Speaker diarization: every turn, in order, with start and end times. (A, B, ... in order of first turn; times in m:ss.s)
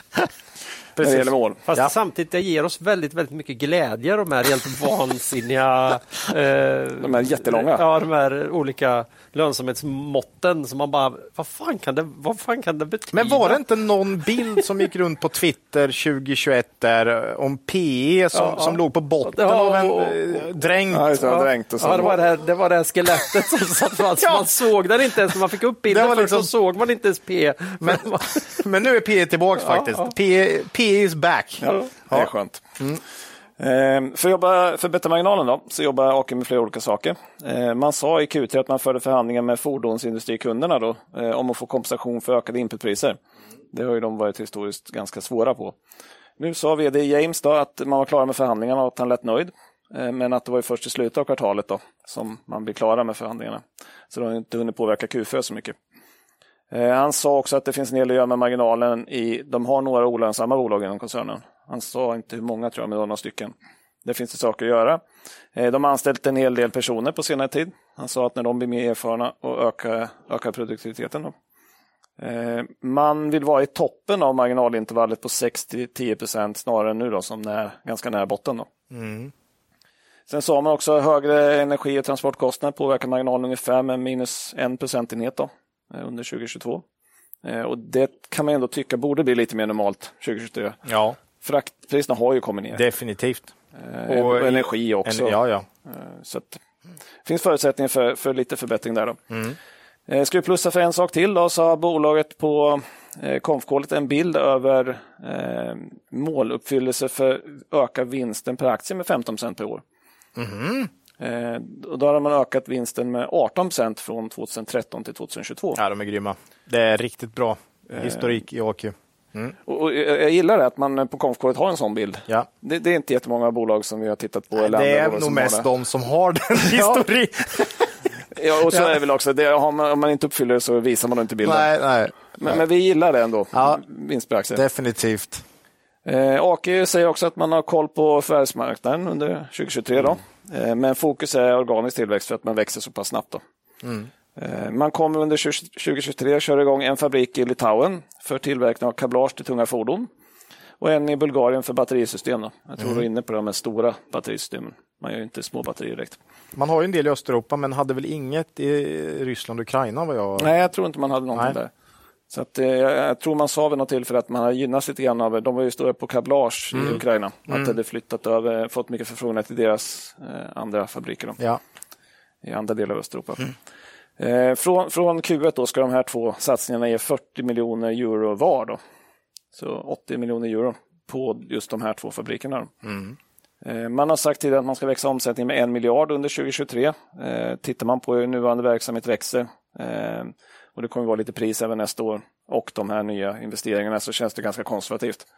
0:01.0-0:01.9 A
0:01.0-0:01.6 B
0:01.7-0:13.6 C
0:07.0-0:07.8 B
0:13.1-0:21.3 A
0:18.3-0:18.7 C
0:19.2-0:20.2 C
0:20.9-0:22.2 B
0:21.2-0:28.4 C
0:24.2-0:24.5 A
0:25.9-0:26.5 A
0:27.8-0:33.0 A
0:31.6-0:32.6 B
0:33.6-0:43.2 B
0:43.7-0:45.7 B
0:46.4-0:55.7 B
0:56.7-1:03.5 B
1:04.0-1:05.0 B
1:05.5-1:11.3 B
1:12.2-1:18.7 B
1:18.9-1:19.3 A
1:20.3-1:26.8 B
1:27.4-1:30.8 B
1:30.8-1:31.2 A
1:31.4-1:32.8 B
1:32.7-1:33.5 A
1:33.8-1:36.6 B
1:34.1-1:35.6 A
1:37.2-1:39.2 B
1:39.3-1:39.6 A
1:40.1-1:49.8 B
1:50.4-1:50.9 A
1:51.2-1:55.8 B
1:55.8-1:59.6 A
1:57.9-1:58.3 B
1:59.6-2:05.6 B
2:04.6-2:07.9 A
2:08.3-2:11.7 B
2:11.4-2:12.1 A
2:12.3-2:14.6 B
2:13.5-2:13.8 A
2:14.5-2:15.4 A
2:16.0-2:23.4 B
2:23.8-2:24.1 A
2:24.4-2:30.1 B
2:30.8-2:36.2 B
2:36.5-2:40.5 A
2:40.4-2:41.7 B
2:42.3-2:51.4 B
2:46.7-2:47.7 A
2:52.4-2:53.5 B
2:54.2-2:58.8 B
2:59.5-3:02.8 B
3:02.8-3:03.1 A
3:03.6-3:15.2 B